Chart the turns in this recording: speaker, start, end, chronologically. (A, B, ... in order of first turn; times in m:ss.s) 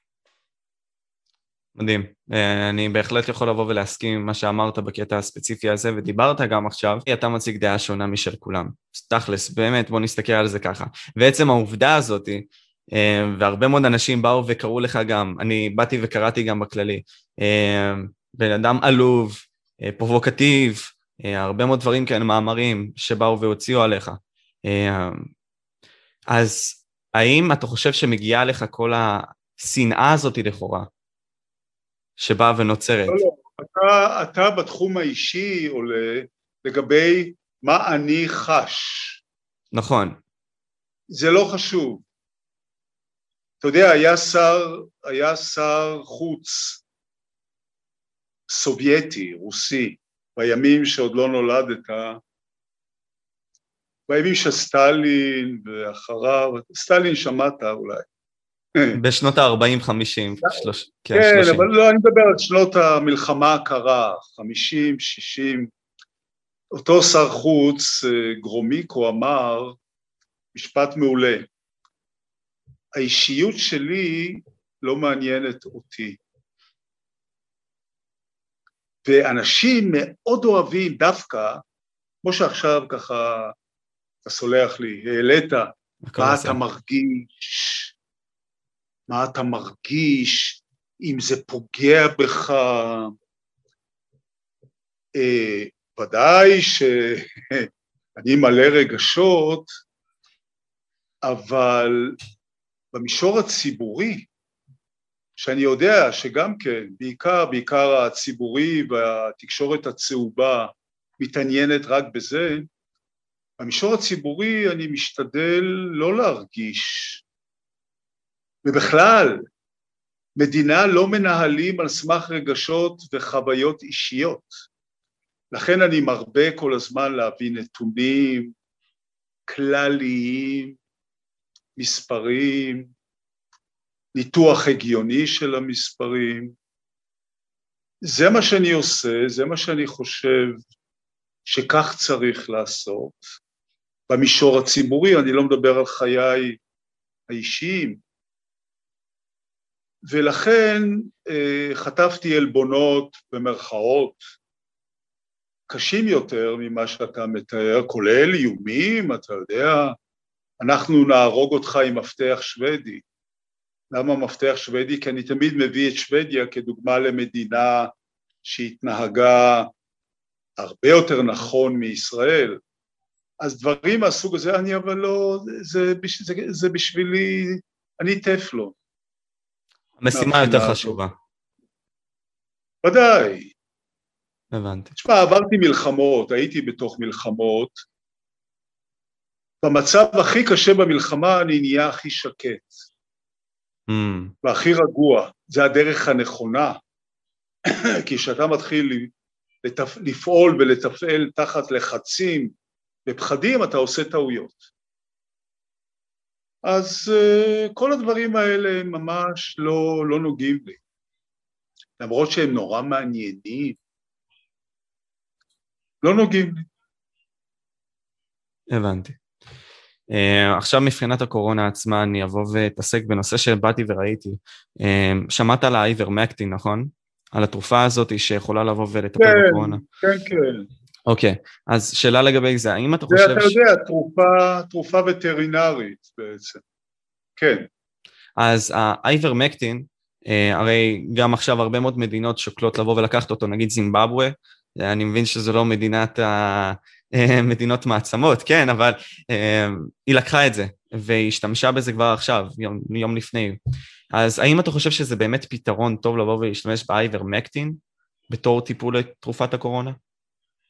0:01.8-0:25.3 A
0:26.3-0:30.9 A
0:32.2-0:33.2 A
0:33.1-0:39.2 B
0:39.7-0:40.2 A
0:41.1-0:42.0 B
0:43.6-0:46.8 B
0:48.5-0:52.2 B
0:54.1-0:58.1 B
0:58.9-1:01.7 A
1:00.4-1:05.7 B
1:06.7-1:09.8 B
1:10.5-1:11.5 B
1:12.9-1:16.2 B
1:19.0-1:21.6 B
1:22.2-1:23.5 B
1:24.2-1:27.9 B
1:26.0-1:26.6 A
1:29.1-1:33.1 B
1:35.1-1:39.7 B
1:41.2-1:42.2 B
1:42.9-1:44.3 B
1:45.4-1:52.7 B
1:53.6-1:57.2 B
1:58.6-1:59.4 B
2:00.4-2:04.5 B
2:05.5-2:08.5 B
2:09.5-2:10.8 B
2:11.8-2:12.9 B
2:14.1-2:16.5 B
2:18.0-2:20.6 B
2:21.5-2:23.2 B
2:24.1-2:26.6 B
2:27.3-2:28.0 B
2:30.1-2:34.2 B
2:35.7-2:40.0 B
2:40.6-2:43.0 B
2:43.9-2:47.9 B
2:48.4-2:49.7 B
2:50.6-2:52.6 B
2:53.4-2:58.7 B
3:00.0-3:01.1 A
3:00.1-3:01.0 B
3:02.8-3:03.5 B
3:04.5-3:04.9 A
3:05.0-3:07.8 B
3:09.6-3:12.7 B
3:13.9-3:14.3 A
3:14.4-3:16.8 B
3:17.7-3:19.1 B
3:19.6-3:22.5 B
3:23.0-3:24.6 B
3:26.6-3:30.8 B
3:32.0-3:33.8 B
3:36.0-3:36.7 B
3:38.7-3:39.2 A
3:40.1-3:49.8 A
3:49.2-3:50.7 B
3:51.0-3:53.6 A
3:53.1-3:56.6 B
3:57.4-3:57.6 B
3:58.4-4:13.6 A
4:14.1-4:20.0 A